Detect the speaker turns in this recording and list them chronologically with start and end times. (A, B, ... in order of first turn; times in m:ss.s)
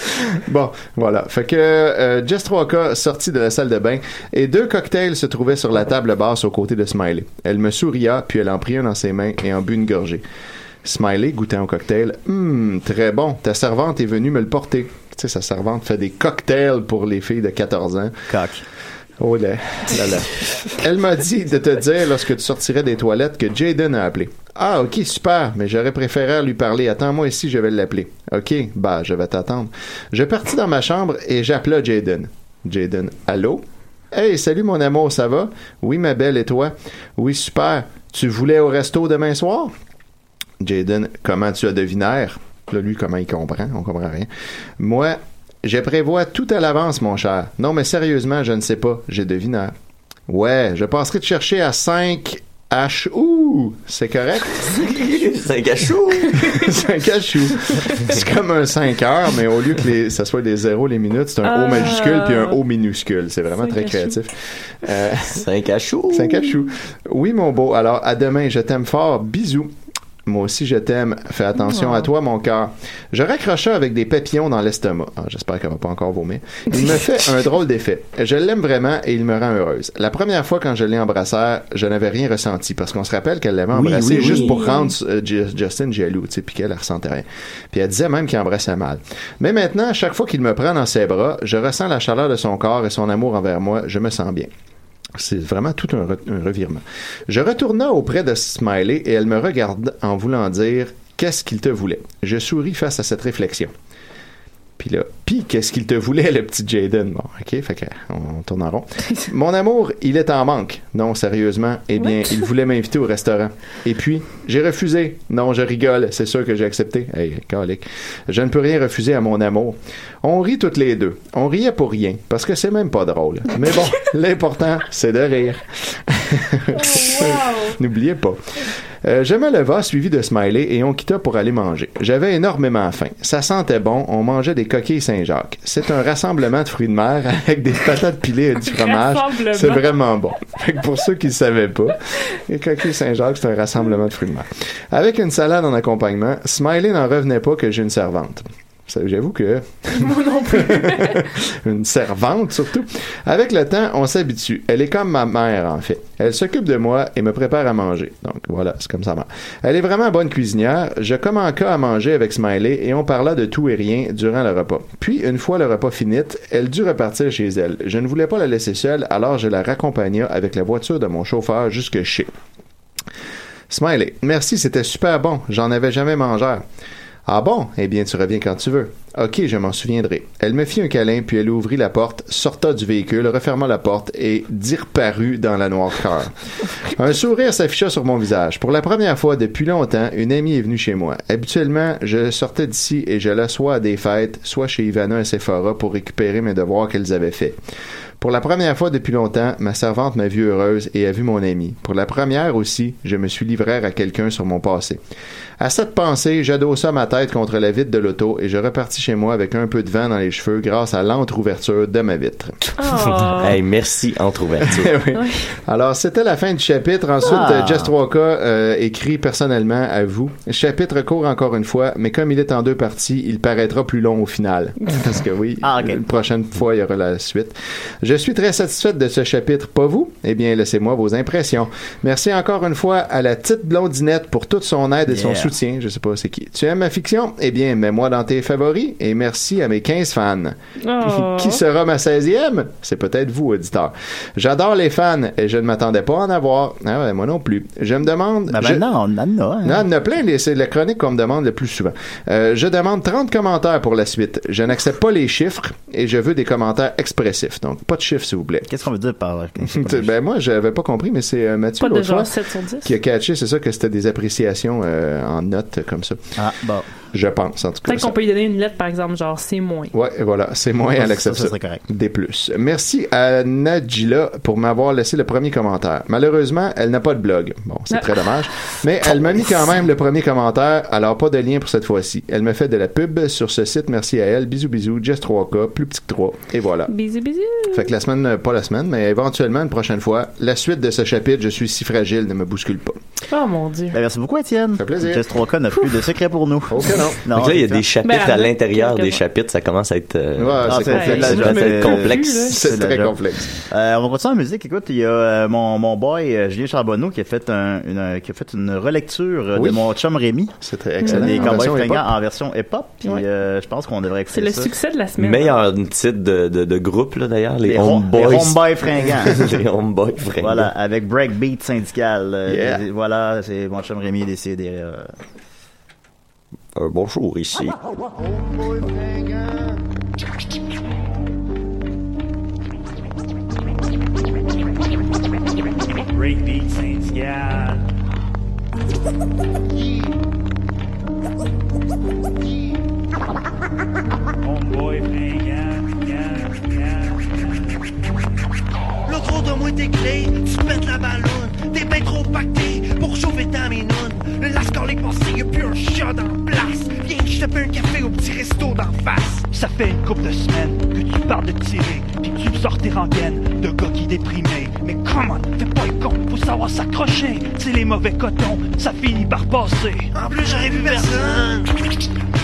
0:00.1-0:10.2 A
0:10.8-0:18.2 A
0:18.3-0:18.6 B
0:19.2-0:39.7 A
0:40.6-0:44.3 A
0:44.8-0:49.7 A
0:50.3-0:54.8 A
0:54.7-0:56.6 C
0:56.4-1:05.4 A
1:01.4-1:02.6 D
1:03.5-1:04.2 D
1:05.3-1:06.5 C
1:06.1-1:09.7 A
1:10.3-1:34.5 A
1:11.6-1:12.1 D
1:23.7-1:24.6 C
1:24.2-1:24.9 D
1:35.2-1:43.7 A
1:44.8-2:08.4 A
1:52.0-1:52.5 D
2:06.7-2:07.8 D
2:09.0-2:52.3 A
2:18.6-2:20.0 D
2:29.9-2:31.3 D
2:53.7-2:56.6 A
2:57.3-3:06.3 A
3:06.9-3:17.6 A
3:18.2-3:25.0 A
3:25.6-3:32.6 A
3:32.8-3:33.6 D
3:33.2-3:34.9 C
3:34.7-4:08.9 A
3:35.1-3:35.5 D
3:37.2-3:37.9 B
3:45.6-3:46.0 B
3:55.1-3:55.5 B
4:00.8-4:01.6 D
4:08.5-4:09.8 B
4:09.6-4:18.7 A
4:18.7-4:20.1 B
4:19.6-4:26.2 A
4:21.8-4:22.9 D
4:26.4-4:26.9 B
4:27.1-4:28.2 A
4:27.8-4:29.9 D
4:29.9-4:46.9 A
4:31.0-4:31.8 B
4:37.9-4:38.3 D
4:46.9-4:47.9 D
4:47.7-4:53.0 A
4:53.3-4:54.0 D
4:53.9-4:57.8 B
4:54.8-4:55.2 A
4:56.7-4:57.2 A
4:57.3-5:02.5 C
4:58.0-4:59.2 D
5:00.4-5:01.8 A
5:00.6-5:14.7 B
5:00.9-5:02.5 D
5:02.5-5:03.5 A
5:09.6-5:09.9 A
5:10.6-5:12.1 A
5:11.0-5:11.6 D
5:14.3-5:15.6 D
5:15.2-5:18.7 C
5:17.7-5:19.4 B
5:19.2-5:20.7 C
5:20.4-5:25.1 B
5:22.5-5:22.8 A
5:26.8-5:27.8 C
5:36.1-5:37.9 E
5:44.4-5:47.3 E
5:49.1-5:59.5 F
5:59.5-6:10.1 E
6:10.1-6:11.8 F